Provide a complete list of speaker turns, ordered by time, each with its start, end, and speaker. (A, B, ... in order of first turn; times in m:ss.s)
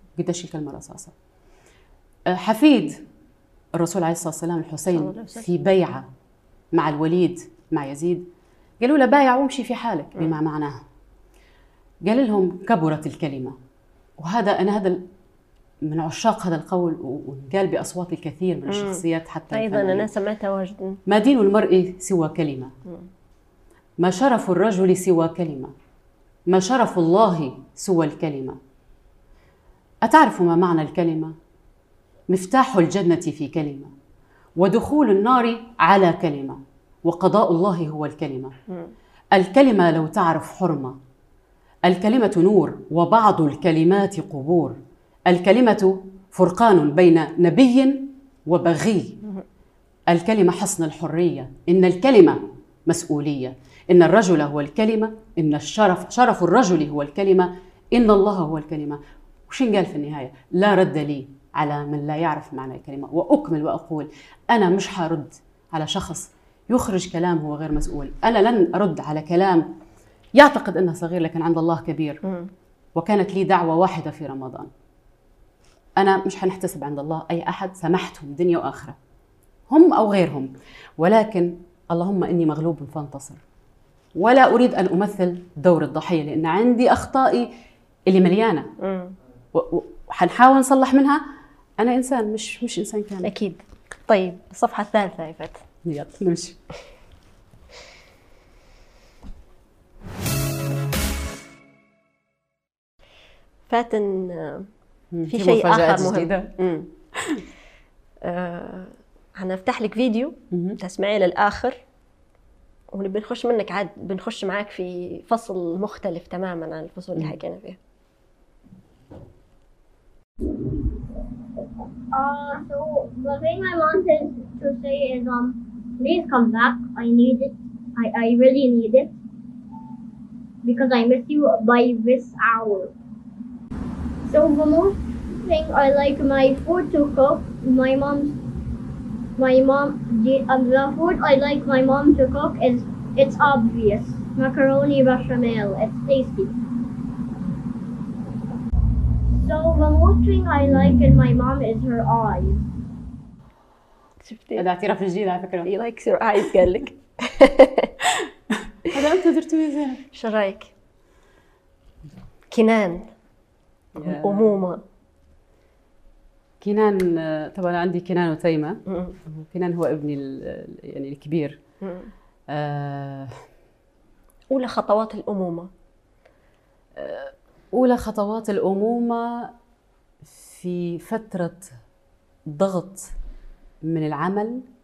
0:00.2-0:01.1 A
0:02.3-0:03.0 A
0:03.8-0:06.1 A
0:04.9-0:05.5 B
0:06.7-0:08.3 A
0:08.8-0:10.8 A
0:12.0-0:13.6 A
0:14.2-0:15.0 A
0:15.8-0:20.1 A
0:18.7-0:21.0 B
0:21.1-0:22.7 A
0:24.0-0:25.7 A
0:26.5-0:28.6 A
0:30.0-0:31.3 A
0:32.3-0:33.9 A
0:34.6-0:38.6 A
0:39.3-0:41.0 A
0:41.8-0:49.2 A
0:50.1-1:09.7 A
1:10.4-1:12.2 A
1:12.2-1:12.5 B
1:13.0-1:14.7 A
1:16.0-1:19.0 A
1:19.7-1:23.4 A
1:24.2-1:27.5 A
1:28.1-1:28.7 A
1:28.8-1:29.1 B
1:29.5-1:31.2 A
1:31.8-1:33.3 A
1:33.2-1:35.6 B
1:35.8-1:36.6 A
1:43.7-1:44.7 B
1:45.1-1:46.6 A
1:45.3-1:46.9 B
1:47.2-1:47.4 A
1:48.2-1:51.8 B
1:50.5-1:50.8 A
1:52.9-1:57.8 B
2:02.1-2:09.1 C
2:10.6-2:12.9 C
2:14.3-2:18.4 C
2:19.4-2:26.5 C
2:29.4-2:32.7 C
2:34.2-2:34.6 B
2:34.6-2:35.7 A
2:35.6-2:37.9 B
2:38.9-2:40.0 A
2:40.1-2:40.7 B
2:42.5-2:43.1 B
2:44.0-2:44.8 B
2:44.0-2:44.6 A
2:46.6-2:51.6 A
2:48.9-2:49.1 B
2:51.8-2:52.1 B
2:52.5-2:53.4 A
2:54.5-2:55.7 B
2:57.0-2:59.5 A
3:00.2-3:01.7 A
3:02.5-3:03.1 A
3:03.8-3:04.6 A